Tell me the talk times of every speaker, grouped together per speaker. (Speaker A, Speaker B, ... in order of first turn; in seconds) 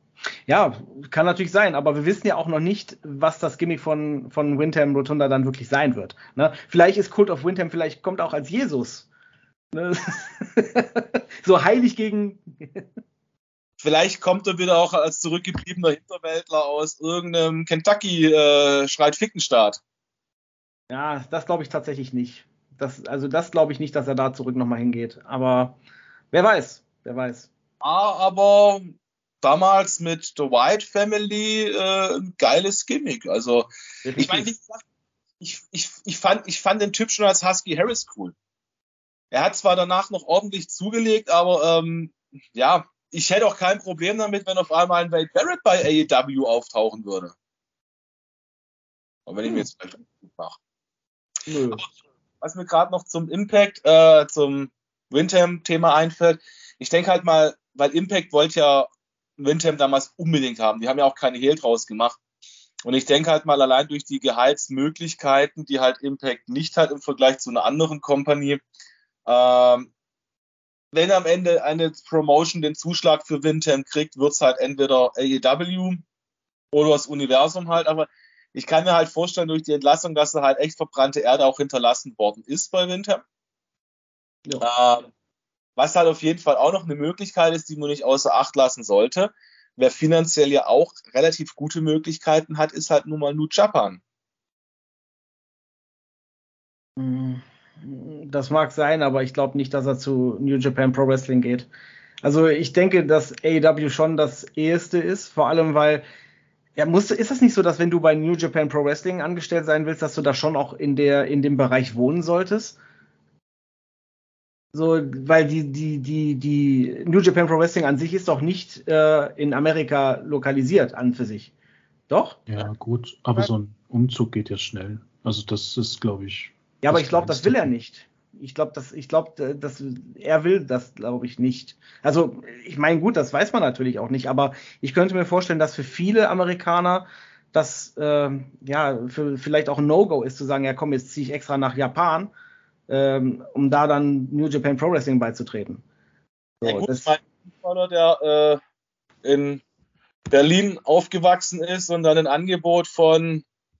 Speaker A: 0.5-9.1, 9.7-12.8, 20.9-25.8, 26.3-27.5, 34.0-34.5, 51.5-51.8, 97.0-101.7, 102.2-106.0, 106.8-112.8, 114.7-121.5, 122.1-122.4, 126.8-142.3, 142.9-145.8, 146.6-147.1
Speaker B: 13.8-19.8, 27.8-34.8, 35.4-38.3, 39.3-47.3, 49.3-50.6, 52.4-62.2, 62.8-68.6, 69.2-69.9, 70.9-76.0, 76.7-83.2, 84.6-85.1, 85.8-94.0, 146.6-148.6, 149.2-149.6, 150.3-153.4
Speaker C: 122.5-127.7